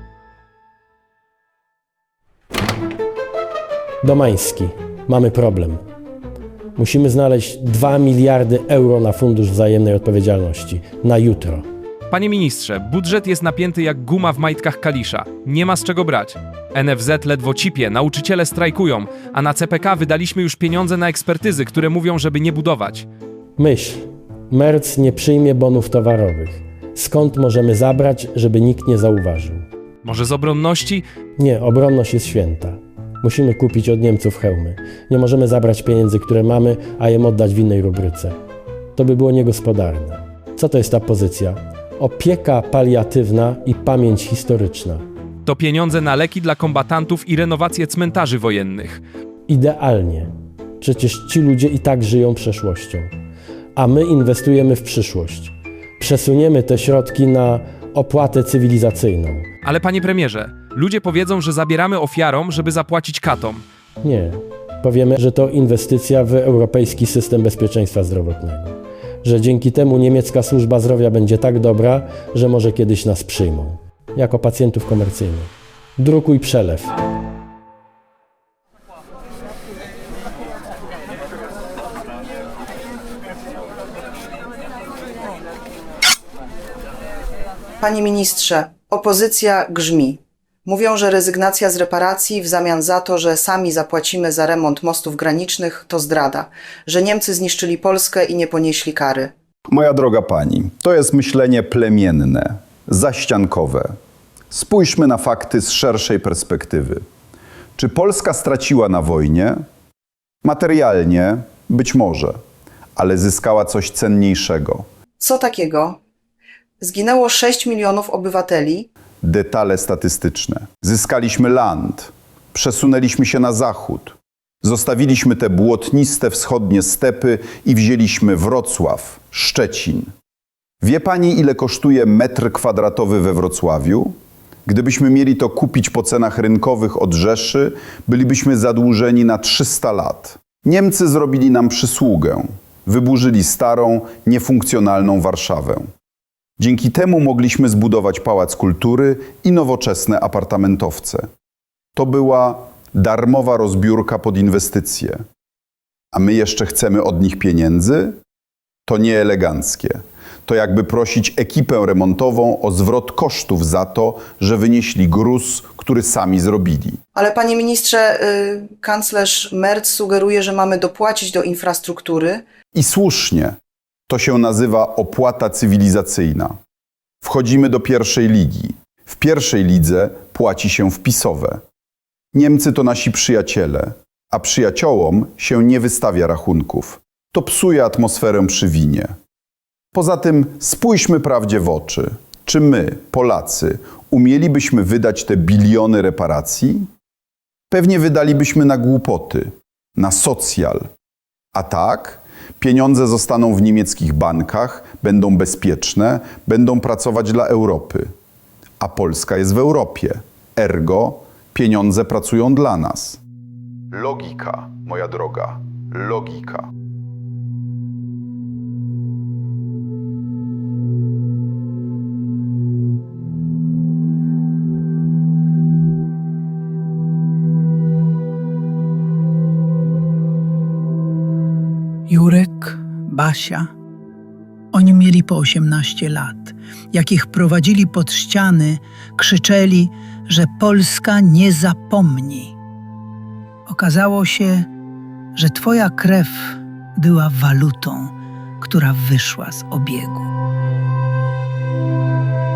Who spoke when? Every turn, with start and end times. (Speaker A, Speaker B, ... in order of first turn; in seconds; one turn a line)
Speaker A: 4.0-5.8
Speaker A: 6.8-11.7
Speaker B: 12.1-23.1
Speaker A: 23.6-29.7
Speaker B: 30.0-31.1
Speaker A: 31.4-38.4
Speaker A: 39.0-45.0
Speaker B: 45.5-49.0
Speaker A: 49.5-53.1
Speaker A: 53.8-59.5
Speaker B: 59.6-63.6
Speaker A: 64.0-76.9
Speaker C: 87.8-99.3
Speaker D: 99.7-104.0
Speaker D: 104.5-107.0
Speaker D: 107.8-109.6
Speaker D: 110.4-112.4
Speaker D: 113.0-114.9
Speaker C: 115.2-116.0
Speaker C: 116.8-118.9
Speaker D: 119.2-130.1
Speaker D: 130.8-145.9
Speaker D: 146.6-151.3
Speaker D: 152.0-155.2
Speaker D: 156.1-158.2
Speaker D: 158.9-167.0
Speaker C: 167.2-172.4
Speaker D: 172.7-173.6
Speaker D: 174.1-176.6
Speaker D: 177.2-181.6
Speaker D: 182.3-189.1
Speaker D: 189.9-196.9
Speaker D: 197.7-200.9
Speaker D: 201.5-208.1
Speaker D: 208.8-213.2
Speaker D: 213.9-216.7
Speaker E: 232.1-233.7
Speaker E: 234.7-242.5
Speaker E: 243.7-244.7
Speaker E: 245.4-250.3